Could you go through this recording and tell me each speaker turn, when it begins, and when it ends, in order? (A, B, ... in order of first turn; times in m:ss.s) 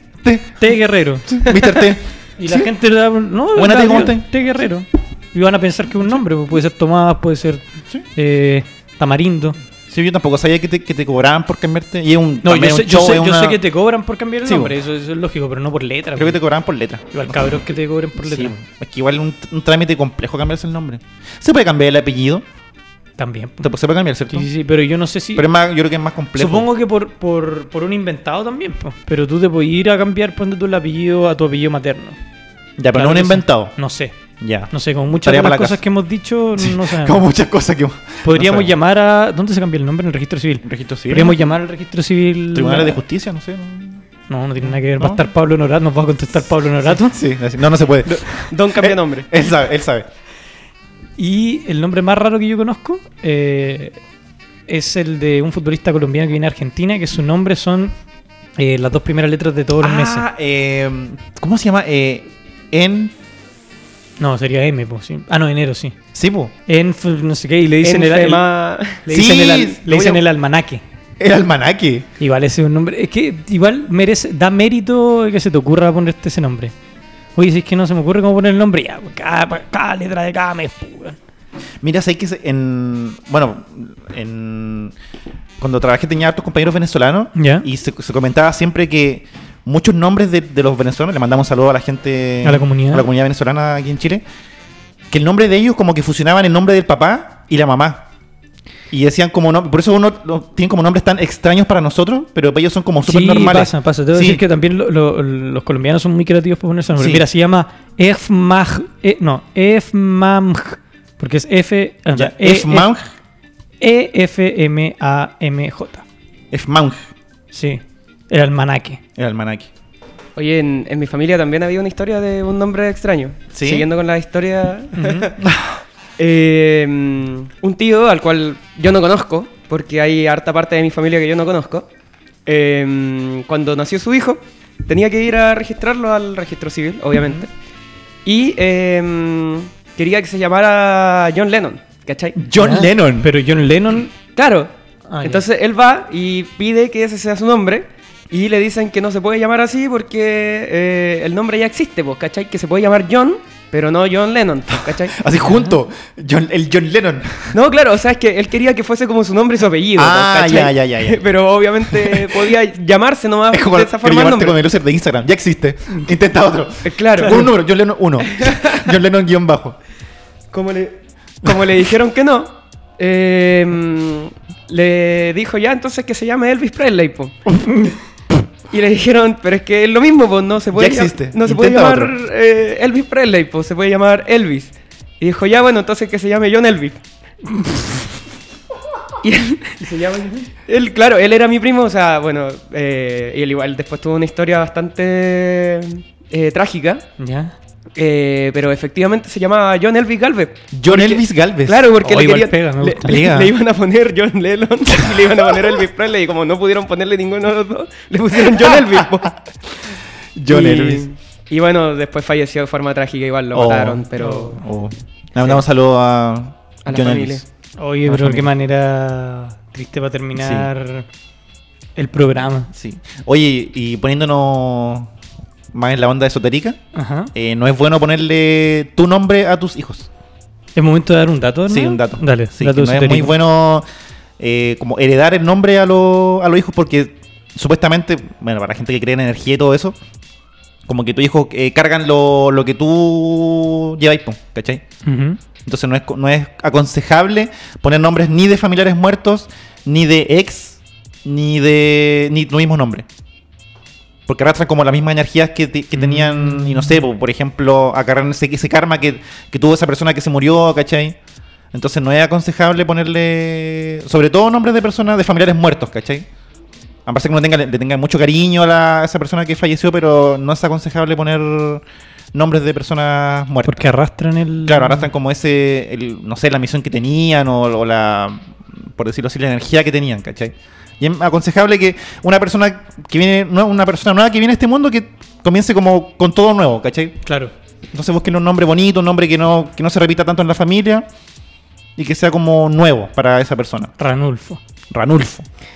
0:00.2-0:00.7 A
0:00.6-0:01.8 B
0:01.3-0:02.7 A
0:02.4-0:09.6 B
0:03.5-0:04.3 A
0:09.8-0:13.6 A
0:12.4-0:16.4 B
0:14.4-0:14.7 A
0:16.2-0:17.6 A
0:17.1-0:18.6 B
0:18.2-0:22.4 A
0:23.2-0:23.7 B
0:23.6-0:24.5 A
0:24.3-0:25.5 B
0:25.3-0:26.7 A
0:26.3-0:32.2 B
0:32.8-0:33.7 A
0:32.9-0:34.1 B
0:34.4-0:35.8 A
0:34.7-0:37.2 B
0:36.6-0:38.7 A
0:38.2-0:43.0 B
0:40.6-0:41.4 A
0:42.5-0:44.0 A
0:44.3-0:47.2 B
0:44.6-0:45.2 A
0:46.9-0:50.1 A
0:48.0-0:49.3 C
0:51.2-0:54.0 B
0:54.7-0:57.9 B
0:58.6-1:00.2 B
0:59.8-1:03.1 A
1:04.2-1:06.0 B
1:06.1-1:06.5 A
1:06.7-1:08.4 B
1:07.8-1:10.0 C
1:09.0-1:10.8 B
1:09.1-1:10.2 A
1:11.2-1:12.1 A
1:12.2-1:16.7 B
1:17.4-1:21.2 B
1:21.8-1:24.9 A
1:25.6-1:34.2 A
1:27.3-1:27.7 B
1:32.4-1:33.0 B
1:35.1-1:38.0 A
1:38.9-1:44.4 A
1:43.0-1:52.9 B
1:47.0-1:47.2 A
1:52.1-1:53.1 A
1:53.8-1:56.0 B
1:56.5-1:57.1 A
1:57.5-1:59.0 B
1:59.2-1:59.7 A
2:00.4-2:05.4 C
2:03.5-2:03.9 A
2:04.9-2:05.3 B
2:05.4-2:05.7 A
2:06.2-2:11.9 C
2:12.4-2:17.5 C
2:17.2-2:17.4 B
2:18.2-2:22.4 C
2:22.4-2:23.3 A
2:22.6-2:24.1 B
2:24.4-2:24.7 C
2:25.1-2:25.4 B
2:25.2-2:35.2 C
2:34.8-2:37.6 A
2:35.4-2:35.7 B
2:37.5-2:44.6 C
2:40.0-2:41.2 A
2:41.8-2:42.5 A
2:43.5-2:49.8 A
2:46.8-2:47.5 C
2:47.2-2:47.5 B
2:48.2-2:48.9 C
2:50.5-2:57.4 C
2:57.7-2:57.9 B
2:58.7-3:07.0 C
3:00.7-3:02.1 A
3:07.6-3:07.8 B
3:09.2-3:09.8 C
3:09.8-3:10.5 B
3:10.7-3:17.0 C
3:17.2-3:17.5 B
3:18.0-3:29.3 C
3:20.7-3:21.8 A
3:22.0-3:23.2 B
3:23.0-3:23.5 A
3:28.6-3:29.1 A
3:30.4-3:31.0 A
3:30.5-3:34.6 C
3:33.5-3:37.4 A
3:34.2-3:34.6 B
3:36.8-3:37.4 C
3:37.8-3:41.1 B
3:38.0-3:38.5 A
3:40.3-3:40.7 A
3:42.0-3:42.7 B
3:42.7-3:45.1 A
3:45.7-3:46.8 A
3:46.9-3:47.3 B
3:47.3-3:50.1 A
3:50.7-3:53.3 B
3:51.7-3:53.8 A
3:54.4-4:00.0 A
4:00.8-4:04.8 A
4:05.0-4:05.4 B
4:05.6-4:13.0 A
4:14.3-4:21.2 A
4:15.9-4:17.0 B
4:21.7-4:26.3 A
4:27.0-4:33.8 A
4:33.6-4:35.1 B
4:34.6-4:47.2 A
4:47.2-4:47.5 B
4:47.9-4:51.1 A
4:52.0-4:53.9 A
4:54.0-4:54.6 B
4:54.9-4:55.4 A